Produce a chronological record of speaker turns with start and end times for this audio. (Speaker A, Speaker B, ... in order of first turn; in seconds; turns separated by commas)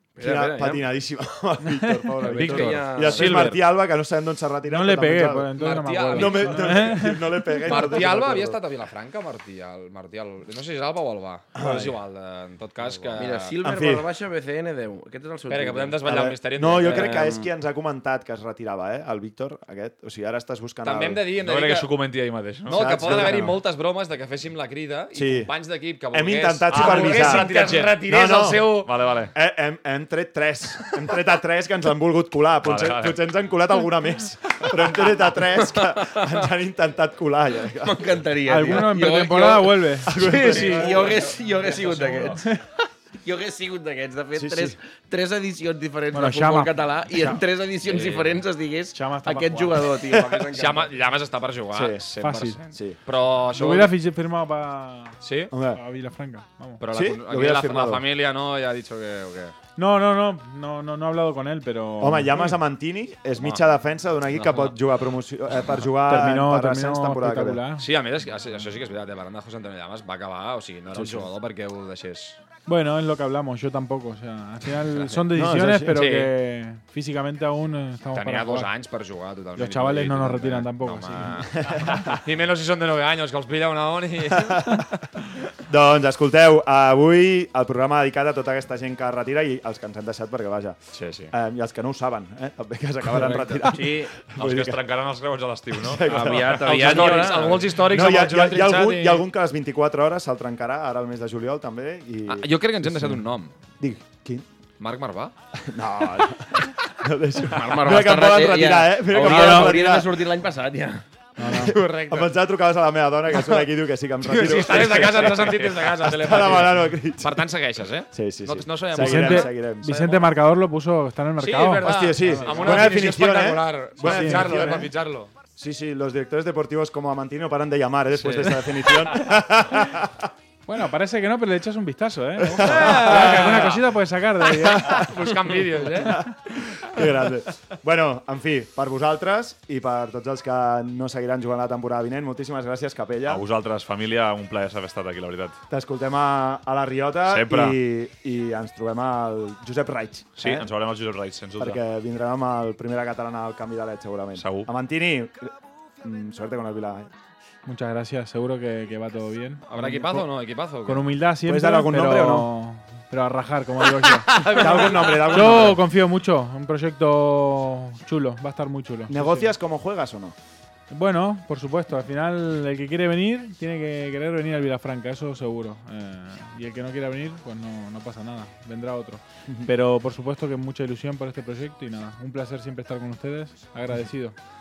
Speaker A: 0.2-0.8, Speaker B: 0.2-5.5, Speaker C: 1.8-2.1, Speaker D: 2.3-3.6, Speaker A: 2.3-3.5, Speaker C: 4.7-7.2, Speaker D: 5.5-7.0, Speaker B: 6.1-8.6, Speaker D: 7.6-13.6, Speaker B: 11.6-11.9, Speaker A: 13.2-16.0, Speaker B: 13.6-14.1, Speaker D: 15.5-17.4, Speaker B: 16.0-21.2, Speaker A: 16.8-17.4, Speaker D: 20.8-21.9, Speaker E: 21.4-23.3, Speaker D: 22.7-28.9, Speaker B: 22.7-23.6, Speaker B: 25.1-25.5, Speaker B: 26.1-28.8, Speaker E: 26.7-28.0, Speaker E: 28.8-29.3, Speaker B: 29.3-38.1, Speaker E: 32.6-33.2, Speaker A: 35.5-36.5, Speaker A: 37.8-42.4, Speaker C: 38.5-40.9, Speaker B: 40.0-41.1, Speaker C: 42.1-42.5, Speaker A: 43.2-50.9, Speaker B: 44.3-44.8, Speaker C: 46.1-46.7, Speaker D: 47.8-48.4, Speaker C: 48.9-49.9, Speaker D: 50.5-53.9, Speaker B: 51.7-52.0, Speaker C: 52.2-52.6, Speaker B: 52.7-53.0, Speaker C: 53.5-55.1, Speaker D: 55.2-55.5, Speaker B: 55.5-55.8, Speaker C: 55.7-56.8, Speaker D: 56.8-59.5, Speaker B: 56.9-58.0, Speaker C: 59.8-62.5, Speaker B: 62.0-67.6, Speaker D: 64.3-64.8, Speaker C: 66.0-67.9, Speaker D: 67.7-72.4, Speaker B: 70.9-71.3, Speaker C: 72.7-78.7, Speaker D: 74.9-75.2, Speaker B: 75.3-76.0, Speaker D: 75.9-76.3, Speaker D: 78.1-85.0, Speaker C: 79.5-81.7, Speaker B: 81.5-82.1, Speaker B: 84.5-84.8, Speaker B: 85.7-90.8, Speaker D: 91.0-91.3, Speaker B: 91.3-94.8, Speaker D: 93.1-93.7, Speaker A: 93.7-94.1, Speaker E: 94.3-96.5, Speaker B: 95.7-97.0, Speaker A: 96.0-97.7, Speaker D: 96.6-99.2, Speaker B: 97.8-103.2, Speaker D: 102.3-103.5, Speaker B: 103.8-104.4, Speaker D: 104.8-105.3, Speaker B: 105.7-110.2, Speaker A: 107.5-111.0, Speaker C: 109.2-109.8, Speaker C: 111.4-111.8, Speaker B: 111.5-117.4, Speaker D: 111.7-112.3, Speaker D: 114.2-120.3, Speaker B: 118.1-119.9, Speaker C: 118.9-122.9, Speaker D: 121.4-125.3, Speaker B: 121.8-124.9, Speaker C: 124.0-124.9, Speaker B: 125.6-130.2, Speaker D: 128.2-129.2, Speaker C: 130.7-135.1, Speaker B: 132.4-133.7, Speaker D: 132.6-133.8, Speaker B: 134.5-143.4, Speaker D: 134.7-136.3, Speaker C: 135.9-136.2, Speaker E: 143.3-145.6, Speaker B: 145.7-150.7, Speaker E: 147.3-147.8, Speaker E: 150.4-151.8, Speaker B: 151.6-155.5, Speaker E: 154.4-154.7, Speaker B: 156.0-157.1, Speaker C: 157.7-160.2, Speaker D: 159.7-161.1, Speaker C: 160.8-169.5, Speaker B: 161.4-162.5, Speaker D: 164.3-165.7, Speaker B: 164.4-165.8, Speaker B: 169.1-170.3, Speaker C: 170.9-184.3